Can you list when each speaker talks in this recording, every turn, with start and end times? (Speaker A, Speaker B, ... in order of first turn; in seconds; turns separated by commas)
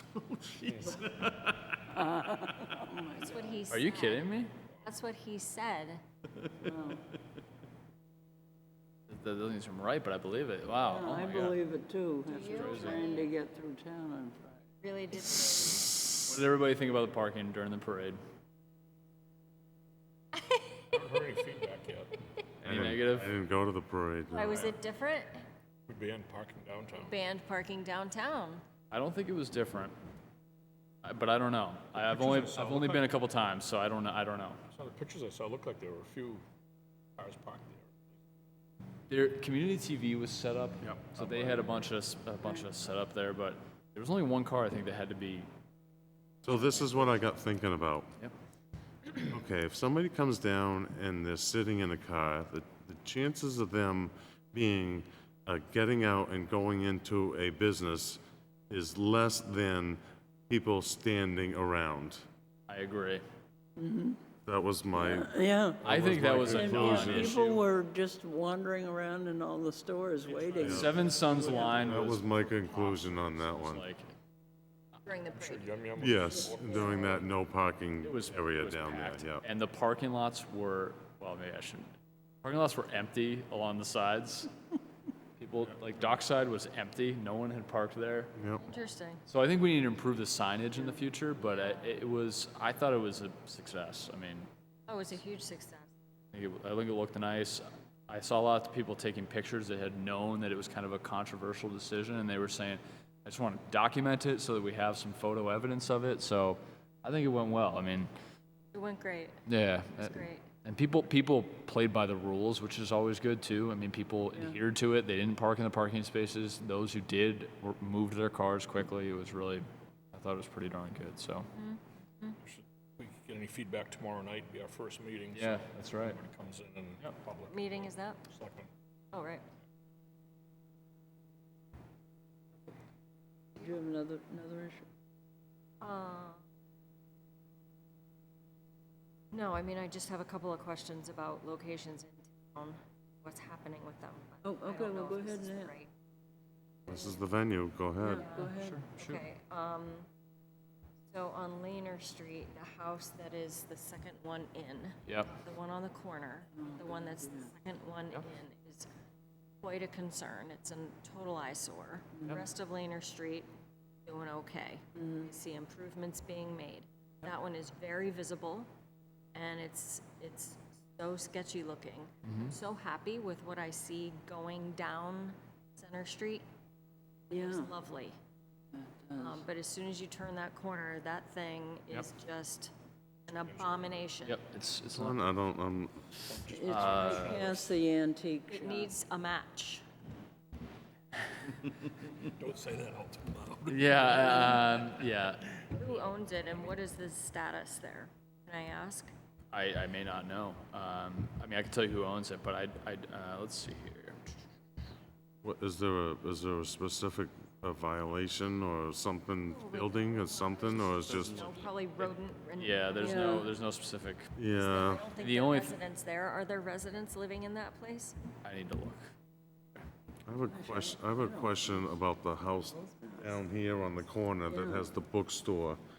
Speaker A: 0.6-1.3, Speaker B: 1.9-3.6, Speaker C: 3.2-6.0, Speaker A: 3.7-4.5, Speaker B: 6.6-7.0, Speaker A: 9.1-11.6, Speaker B: 10.8-14.6, Speaker C: 12.3-13.3, Speaker A: 12.5-13.0, Speaker C: 14.8-16.0, Speaker A: 16.2-18.2, Speaker C: 20.3-20.8, Speaker D: 20.9-22.1, Speaker A: 22.6-23.3, Speaker E: 22.6-24.7, Speaker C: 24.3-25.4, Speaker D: 25.9-27.1, Speaker C: 27.0-28.6, Speaker A: 28.9-29.9, Speaker A: 31.0-34.6, Speaker D: 31.9-33.1, Speaker D: 34.7-36.4, Speaker D: 37.2-38.1, Speaker A: 39.1-45.5, Speaker D: 40.8-41.5, Speaker E: 46.4-48.1, Speaker E: 49.3-62.2, Speaker A: 62.7-63.2, Speaker B: 63.8-64.2, Speaker E: 64.5-65.3, Speaker B: 65.0-70.9, Speaker E: 65.8-67.3, Speaker A: 65.8-67.7, Speaker D: 66.4-66.6, Speaker D: 70.3-72.0, Speaker E: 70.6-71.0, Speaker A: 70.6-74.1, Speaker E: 71.6-73.8, Speaker C: 75.0-75.7, Speaker D: 75.3-77.3, Speaker E: 76.0-79.4, Speaker B: 76.7-77.0, Speaker A: 78.0-81.9, Speaker A: 82.4-84.5, Speaker A: 85.4-88.3, Speaker E: 88.4-88.6, Speaker C: 88.6-89.2, Speaker A: 89.3-94.5, Speaker C: 91.3-92.0, Speaker C: 94.9-95.9, Speaker A: 96.3-108.1, Speaker C: 108.7-109.4, Speaker A: 109.5-121.5, Speaker C: 110.0-110.5, Speaker C: 121.5-122.4, Speaker D: 122.4-128.7, Speaker A: 125.3-126.2, Speaker C: 127.5-128.2, Speaker C: 129.1-129.4, Speaker B: 133.6-134.8, Speaker C: 135.8-136.4, Speaker C: 139.3-145.9, Speaker B: 144.4-145.7, Speaker C: 146.9-147.2, Speaker E: 146.9-148.3, Speaker B: 148.0-148.8, Speaker C: 148.1-150.1, Speaker A: 148.3-149.2, Speaker C: 151.1-158.9, Speaker B: 156.6-157.5, Speaker C: 159.6-163.5, Speaker C: 164.0-168.7, Speaker B: 165.0-165.3, Speaker C: 169.3-176.4, Speaker A: 172.2-172.6, Speaker B: 177.3-177.7, Speaker C: 177.3-178.1, Speaker B: 178.7-179.4, Speaker C: 179.2-182.7, Speaker C: 183.3-184.4, Speaker D: 183.4-184.0, Speaker A: 184.2-185.2, Speaker E: 184.9-186.0, Speaker D: 186.3-187.7, Speaker B: 186.5-188.9, Speaker A: 186.6-187.5, Speaker C: 188.5-189.8, Speaker D: 192.3-194.4, Speaker A: 193.7-195.4, Speaker B: 194.1-194.7, Speaker C: 195.7-199.1, Speaker A: 199.5-204.2, Speaker E: 205.4-211.6, Speaker C: 209.5-213.5, Speaker A: 210.9-211.5, Speaker A: 212.6-214.3, Speaker B: 213.0-213.5, Speaker E: 214.3-215.1, Speaker C: 214.5-218.2, Speaker A: 215.2-215.8, Speaker A: 218.4-219.0, Speaker E: 220.2-225.8, Speaker B: 220.5-221.7, Speaker B: 222.8-223.4, Speaker B: 224.5-224.9